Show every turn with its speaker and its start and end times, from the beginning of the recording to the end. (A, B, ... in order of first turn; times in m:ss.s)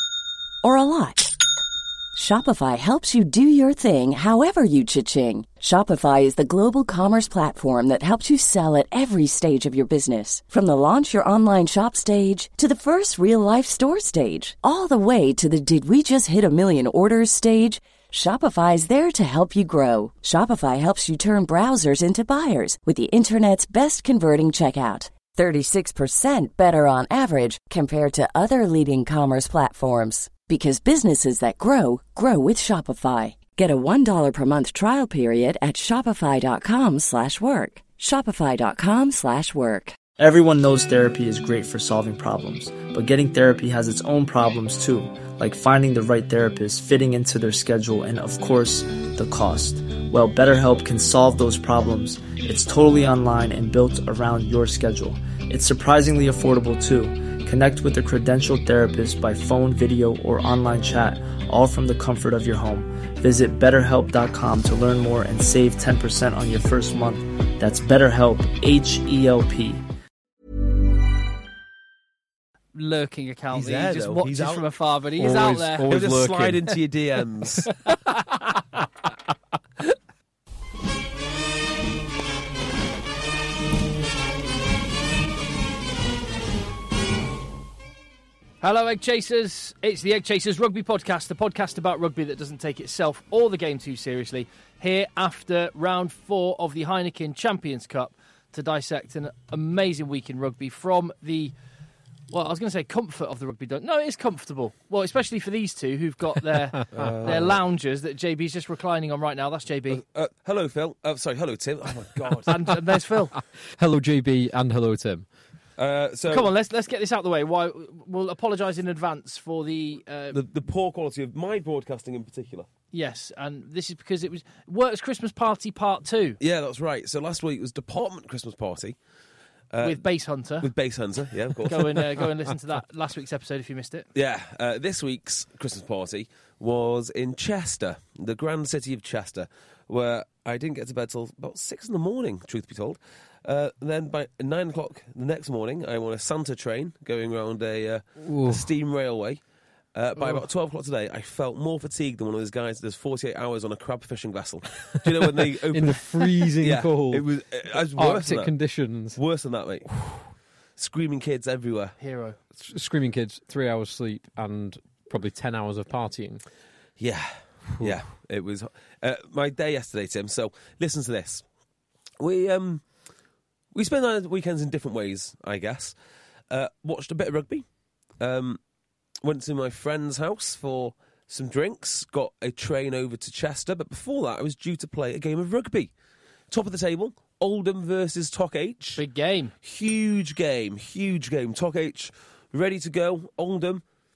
0:00.6-0:01.4 A
0:02.1-0:40.0 A
0:40.2-1:09.8 B
1:12.7-1:15.9 C
1:13.5-1:14.7 D
1:15.2-1:16.8 E
1:15.9-1:17.7 D
1:17.7-1:18.4 E
1:28.6-1:41.5 C
1:42.3-1:50.0 C
1:46.9-1:47.6 D
1:49.9-1:52.7 D
1:52.5-1:53.3 C
1:53.7-1:55.2 E
1:55.8-1:56.5 D
1:56.3-2:00.4 C
2:00.3-2:02.7 D
2:02.9-2:06.4 C
2:06.4-2:09.0 D
2:09.7-2:12.2 D
2:09.8-2:10.7 C
2:11.6-2:14.1 C
2:14.1-2:29.4 D
2:28.2-2:28.7 E
2:29.9-2:38.5 D
2:35.4-2:37.2 E
2:37.9-2:39.2 E
2:39.1-2:39.9 D
2:40.8-2:42.0 D
2:42.0-2:42.4 C
2:42.6-2:46.4 E
2:47.0-2:51.4 D
2:47.7-2:48.0 E
2:52.2-2:52.8 D
2:53.7-2:56.0 D
2:56.5-2:57.6 D
2:58.2-2:58.6 D
2:59.2-3:05.9 D
3:06.5-3:09.0 D
3:09.0-3:09.5 C
3:09.6-3:13.8 D